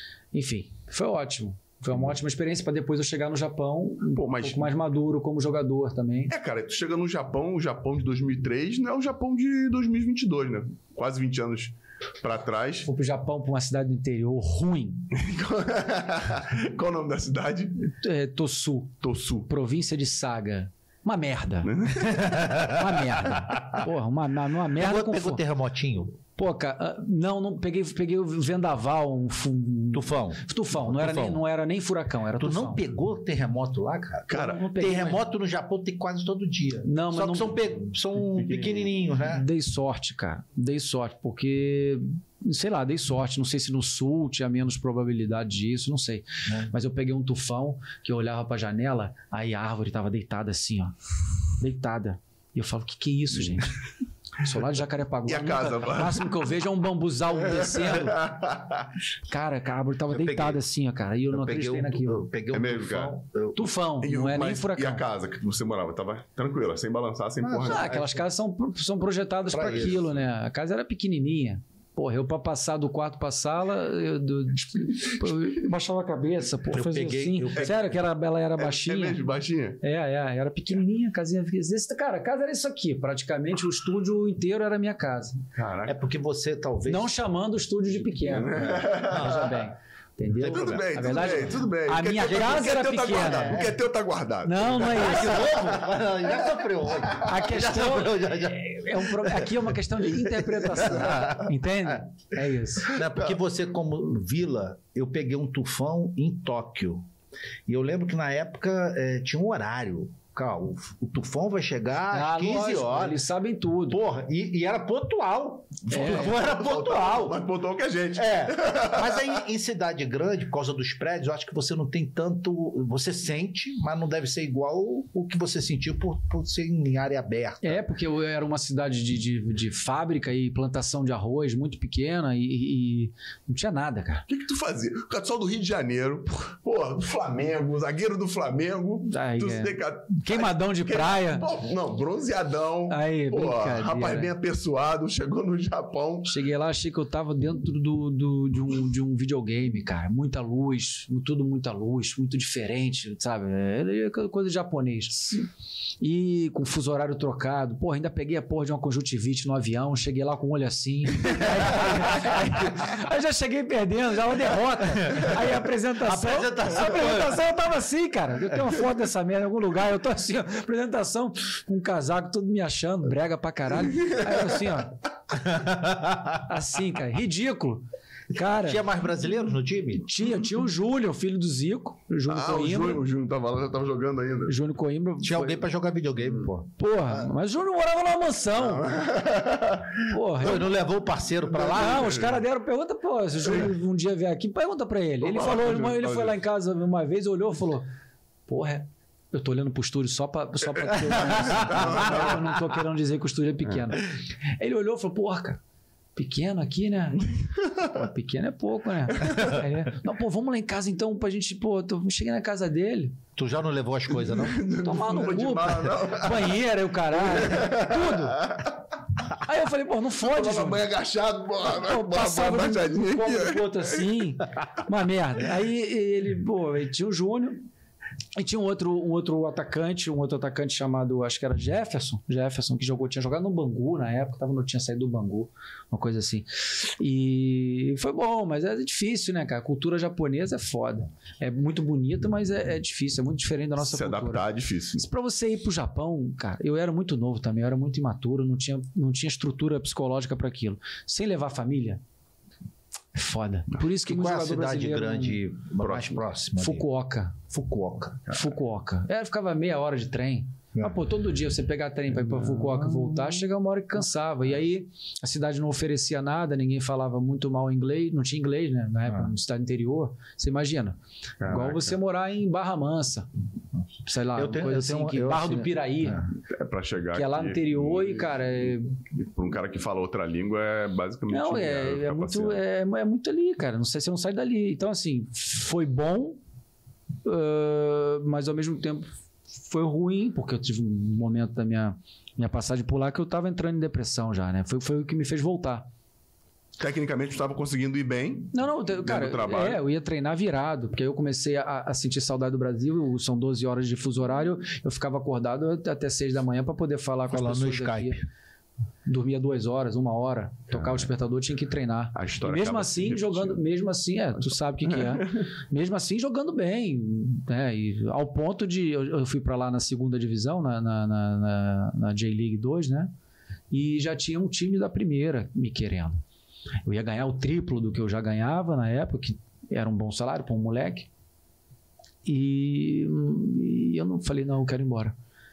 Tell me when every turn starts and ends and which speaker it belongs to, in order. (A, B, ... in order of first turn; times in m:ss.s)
0:00.3-0:06.3 A
0:04.1-0:04.7 B
0:06.3-0:12.9 B
0:12.8-0:15.1 A
0:15.1-0:17.8 B
0:17.9-0:25.4 A
0:19.0-0:19.5 B
0:21.6-0:22.2 B
0:24.8-0:26.2 C
0:26.4-0:32.8 A
0:29.9-0:31.4 C
0:32.4-0:39.4 C
0:34.3-0:34.7 B
0:34.3-0:35.2 A
0:36.8-0:37.8 A
0:38.3-0:38.9 B
0:39.2-0:51.0 A
0:46.5-0:46.7 C
0:51.6-0:53.8 A
0:54.4-0:58.3 A
0:55.3-0:56.3 B
0:57.4-0:58.9 B
0:59.3-1:02.3 A
1:00.1-1:00.6 C
1:01.3-1:03.6 C
1:02.5-1:03.2 B
1:03.6-1:05.0 A
1:04.0-1:07.9 B
1:07.4-1:08.2 C
1:07.7-1:19.2 A
1:09.5-1:10.0 C
1:09.6-1:10.1 B
1:16.7-1:17.8 C
1:17.5-1:17.9 B
1:18.6-1:19.8 B
1:19.8-1:25.4 A
1:25.5-1:26.0 B
1:25.9-1:27.1 C
1:26.9-1:33.7 A
1:28.3-1:29.6 B
1:28.6-1:29.5 C
1:30.4-1:31.0 C
1:30.4-1:35.6 B
1:32.2-1:32.5 C
1:33.1-1:33.7 C
1:34.4-1:35.8 A
1:34.9-1:39.5 C
1:37.2-1:43.0 A
1:40.6-1:42.0 C
1:42.9-1:47.1 C
1:47.7-1:53.2 C
1:52.1-1:54.0 A
1:53.9-1:57.4 C
1:55.9-1:56.4 A
1:55.9-1:59.4 B
1:58.2-2:07.8 C
2:07.6-2:14.2 A
2:14.3-2:26.3 B
2:19.1-2:21.5 A
2:22.9-2:24.3 A
2:26.3-2:35.5 A
2:36.0-2:55.0 A
2:46.0-2:47.4 C
2:55.4-2:56.4 C
2:56.4-2:58.8 A
2:58.5-3:00.1 C
3:00.1-3:03.0 A
3:02.3-3:04.6 B
3:04.5-3:05.6 A
3:05.2-3:06.7 C
3:06.8-3:08.9 A
3:08.6-3:10.0 B
3:10.1-3:10.7 A
3:10.4-3:12.2 C
3:11.6-3:17.9 A
3:11.8-3:12.4 B
3:15.2-3:16.3 B
3:18.5-3:25.6 A
3:21.2-3:22.4 B
3:26.2-3:33.2 A
3:33.4-3:34.6 C
3:34.2-3:36.6 B
3:34.8-3:38.5 A
3:37.1-3:38.8 B
3:39.4-3:40.8 A
3:40.2-3:44.2 B
3:41.7-3:47.7 A
3:48.4-4:04.4 A
4:03.8-4:05.0 B
4:05.0-4:12.0 A
4:13.1-4:15.4 A
4:14.0-4:16.9 C
4:15.8-4:16.2 B
4:16.6-4:17.5 A
4:17.5-4:18.3 C
4:18.3-4:33.3 A
4:22.2-4:23.4 B
4:31.4-4:32.0 B
4:34.0-4:36.3 A
4:34.3-4:36.3 C
4:36.5-4:42.6 B
4:37.1-4:39.0 A
4:41.3-4:46.4 A
4:47.2-4:49.1 A
4:49.6-4:55.9 A
4:56.8-4:59.8 B
4:58.5-5:08.2 A
5:07.3-5:08.2 C
5:09.1-5:23.1 A
5:10.7-5:11.1 B
5:12.1-5:13.6 B
5:14.8-5:15.4 B
5:23.7-5:26.2 A
5:26.8-5:31.1 A
5:32.2-5:35.2 A